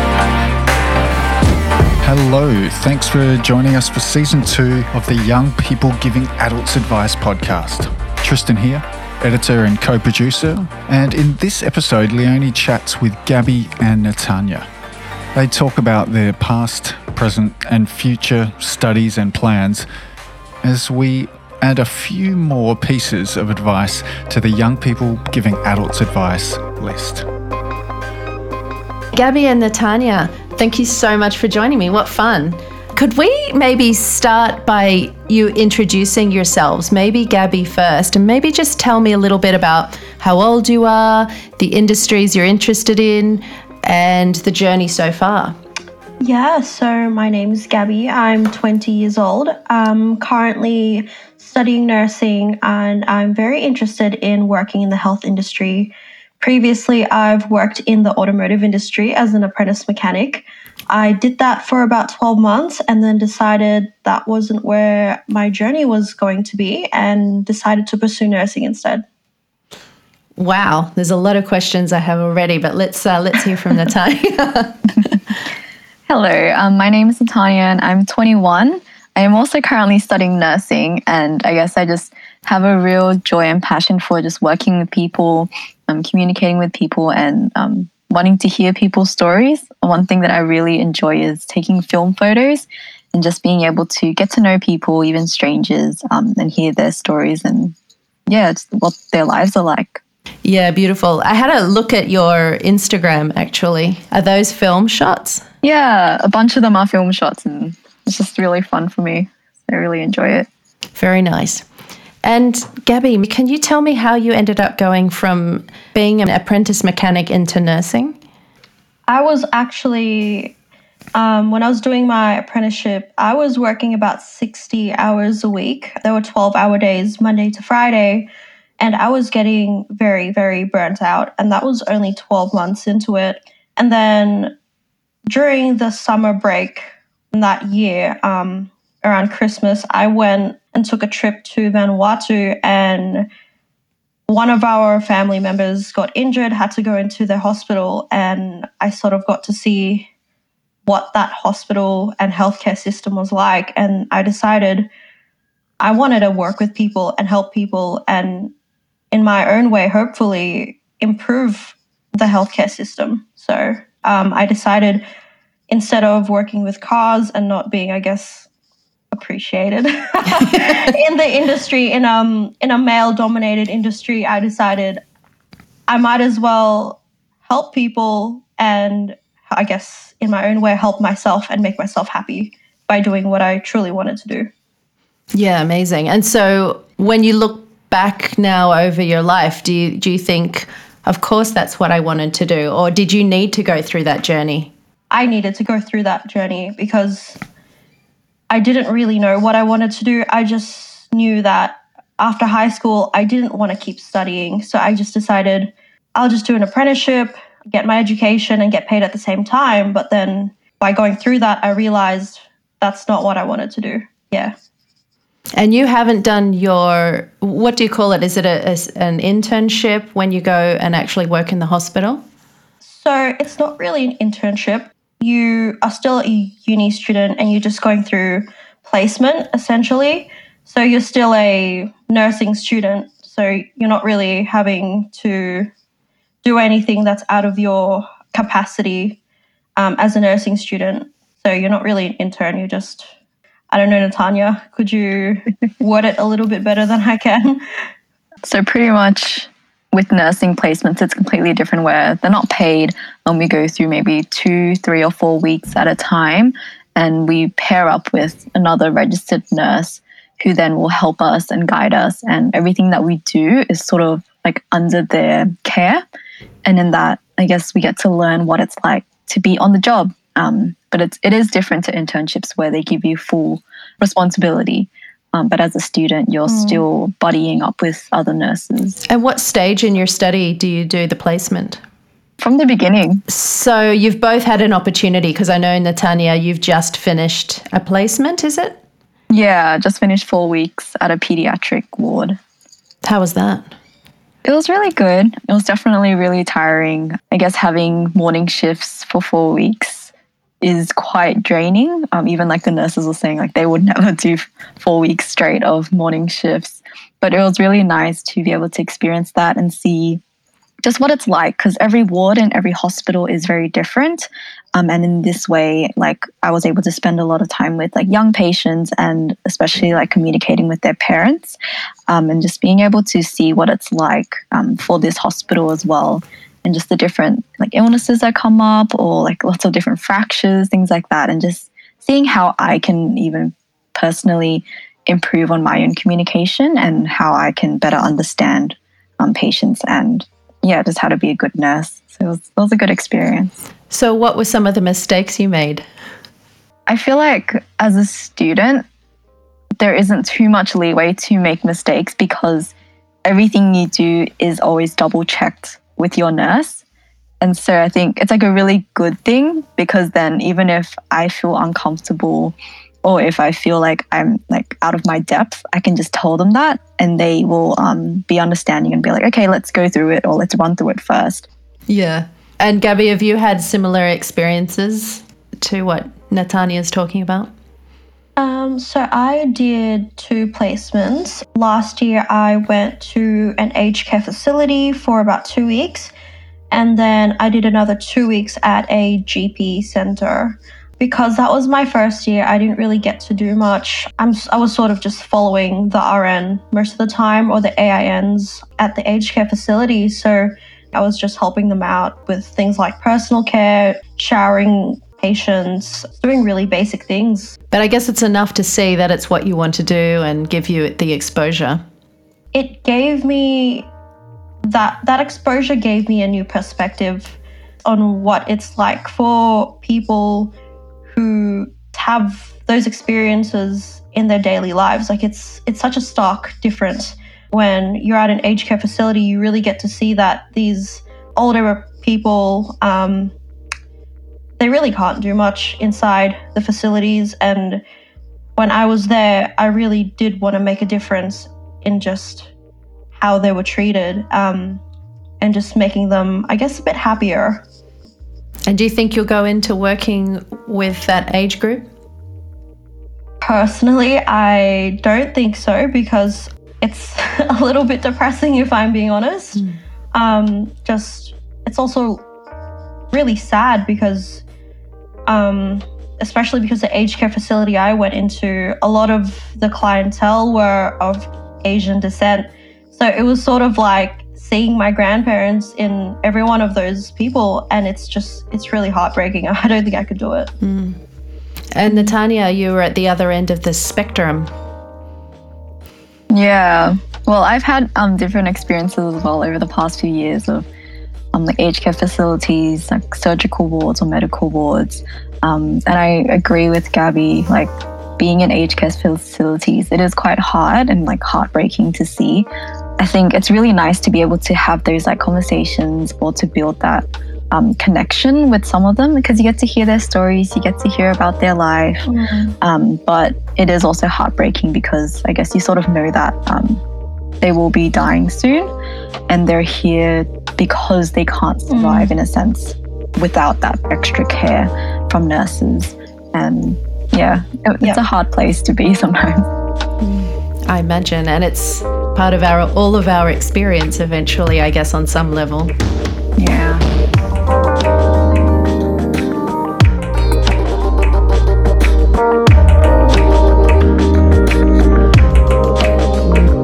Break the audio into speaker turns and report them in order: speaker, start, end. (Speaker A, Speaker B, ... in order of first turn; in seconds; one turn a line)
Speaker A: 2.0-14.7
Speaker A: 15.3-19.9
Speaker A: 20.6-27.2
Speaker B: 29.1-45.5
Speaker C: 46.2-69.0
Speaker B: 70.4-74.8
Speaker D: 76.1-97.8
Speaker D: 98.3-100.0
Speaker B: 100.4-105.4
Speaker D: 105.6-110.5
Speaker B: 110.9-111.6
Speaker B: 112.2-118.2
Speaker C: 119.1-120.5
Speaker C: 121.1-128.3
Speaker C: 128.8-134.5
Speaker C: 135.3-143.3
Speaker C: 144.3-150.1
Speaker C: 150.8-154.9
Speaker C: 155.8-158.5
Speaker C: 159.1-165.0
Speaker C: 165.7-168.5
Speaker C: 169.1-175.0
Speaker C: 175.9-184.5
Speaker B: 185.3-194.7
Speaker C: 195.1-197.4
Speaker C: 198.5-214.5
Speaker B: 215.5-222.2
Speaker C: 222.8-235.7
Speaker C: 236.4-239.2
Speaker C: 239.8-243.1
Speaker C: 243.7-247.6
Speaker D: 248.4-266.0
Speaker D: 266.6-279.0
Speaker C: 276.5-276.8
Speaker B: 279.1-281.8
Speaker D: 282.4-283.2
Speaker B: 283.3-288.8
Speaker D: 289.3-292.4
Speaker B: 293.0-293.7
Speaker D: 294.4-300.1
Speaker D: 300.6-310.2
Speaker D: 310.8-343.6
Speaker B: 343.9-345.8
Speaker D: 346.9-348.9
Speaker D: 349.8-352.7
Speaker D: 353.2-356.8
Speaker D: 357.4-371.5
Speaker B: 371.9-377.5
Speaker C: 378.4-386.1
Speaker C: 386.7-407.6
Speaker B: 407.7-411.8
Speaker C: 412.5-413.9
Speaker C: 414.6-420.5
Speaker C: 421.1-433.3
Speaker C: 434.6-437.8
Speaker C: 438.6-442.5
Speaker C: 443.1-444.8
Speaker C: 445.4-447.6
Speaker B: 448.6-451.9
Speaker C: 453.4-459.6
Speaker C: 460.1-462.2
Speaker C: 463.1-464.4
Speaker C: 465.3-480.5
Speaker B: 480.6-481.0
Speaker B: 481.7-484.5
Speaker D: 486.3-490.7
Speaker D: 491.3-502.5
Speaker D: 503.0-512.1
Speaker C: 512.1-512.5
Speaker D: 512.6-516.8
Speaker D: 517.4-518.7
Speaker D: 519.3-529.5
Speaker C: 521.7-522.1
Speaker B: 530.0-535.7
Speaker D: 536.4-536.8